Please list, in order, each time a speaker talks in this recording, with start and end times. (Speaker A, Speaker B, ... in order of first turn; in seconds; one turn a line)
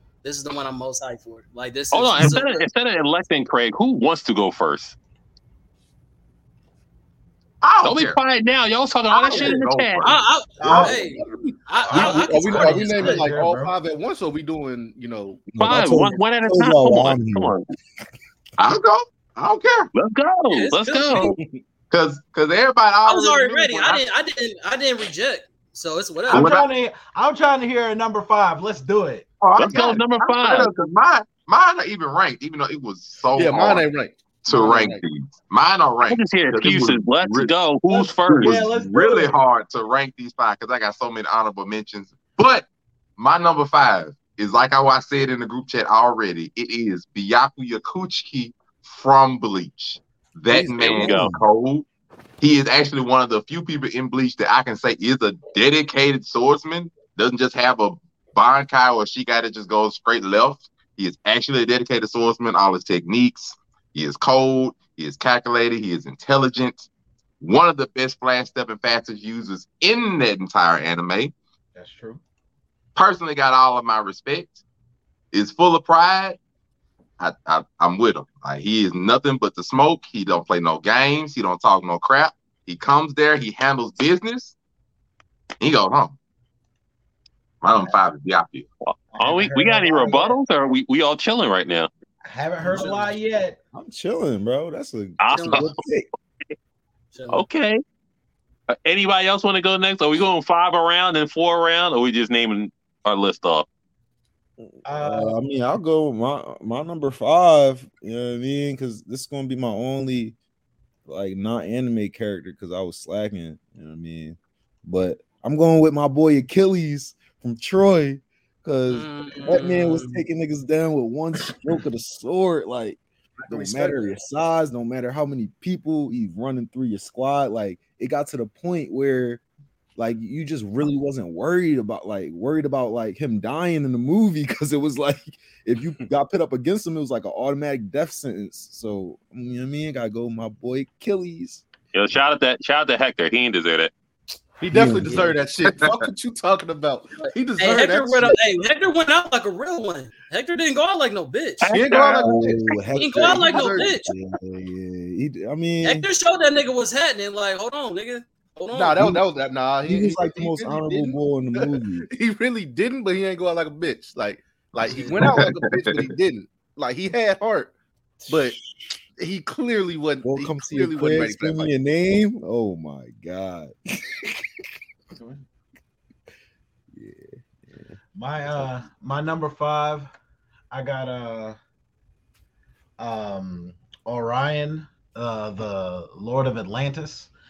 Speaker A: 0.2-2.6
Speaker B: 1.9-5.0
Speaker C: 7.6-8.2
Speaker B: 7.8-10.2
Speaker C: 9.1-10.2
Speaker A: 10.0-13.3
Speaker D: 10.6-11.0
Speaker E: 10.6-15.5
Speaker D: 11.8-13.7
Speaker F: 15.5-17.6
Speaker B: 15.6-17.6
Speaker C: 18.6-19.9
Speaker B: 19.9-21.4
Speaker A: 20.5-21.4
Speaker C: 21.9-24.0
Speaker A: 23.1-26.5
Speaker C: 26.3-26.7
Speaker D: 26.3-29.3
Speaker C: 29.4-33.9
Speaker B: 29.6-30.7
Speaker E: 33.4-35.0
Speaker C: 34.4-51.9
Speaker B: 36.1-38.6
Speaker D: 38.4-39.4
Speaker F: 50.5-51.4
Speaker B: 50.8-51.3
Speaker C: 52.4-66.9
Speaker C: 67.4-71.3
Speaker D: 71.8-72.2
Speaker C: 73.0-74.6
Speaker C: 75.3-76.4
Speaker C: 77.2-84.5
Speaker C: 85.6-86.2
Speaker C: 87.6-88.7
Speaker B: 88.9-91.9
Speaker D: 89.2-90.4
Speaker D: 92.2-93.6
Speaker F: 92.6-92.9
Speaker A: 92.7-93.1
Speaker F: 93.7-96.1
Speaker B: 95.2-95.8
Speaker A: 95.3-95.7
Speaker A: 97.1-97.4
Speaker B: 97.3-97.8
Speaker B: 98.7-103.7
Speaker F: 104.6-110.4
Speaker D: 104.8-105.4
Speaker F: 111.1-129.4
Speaker A: 118.9-120.2
Speaker E: 123.4-124.2
Speaker F: 130.0-141.6
Speaker B: 141.9-143.9
Speaker E: 144.6-148.4
Speaker F: 144.7-145.4
Speaker C: 145.7-146.0
Speaker A: 147.2-151.8
Speaker B: 151.6-152.8
Speaker E: 151.7-152.6
Speaker F: 152.2-156.1
Speaker A: 153.0-154.1
Speaker E: 153.4-153.8
Speaker A: 155.8-159.0
Speaker E: 158.7-167.7
Speaker F: 159.0-159.2
Speaker F: 159.9-162.1
Speaker A: 164.8-165.2
Speaker C: 165.4-166.0
Speaker F: 168.2-168.6
Speaker E: 168.3-168.6
Speaker E: 169.2-171.7
Speaker F: 170.2-174.4
Speaker F: 176.9-178.7
Speaker D: 178.2-180.1
Speaker D: 180.7-181.6
Speaker D: 183.0-187.3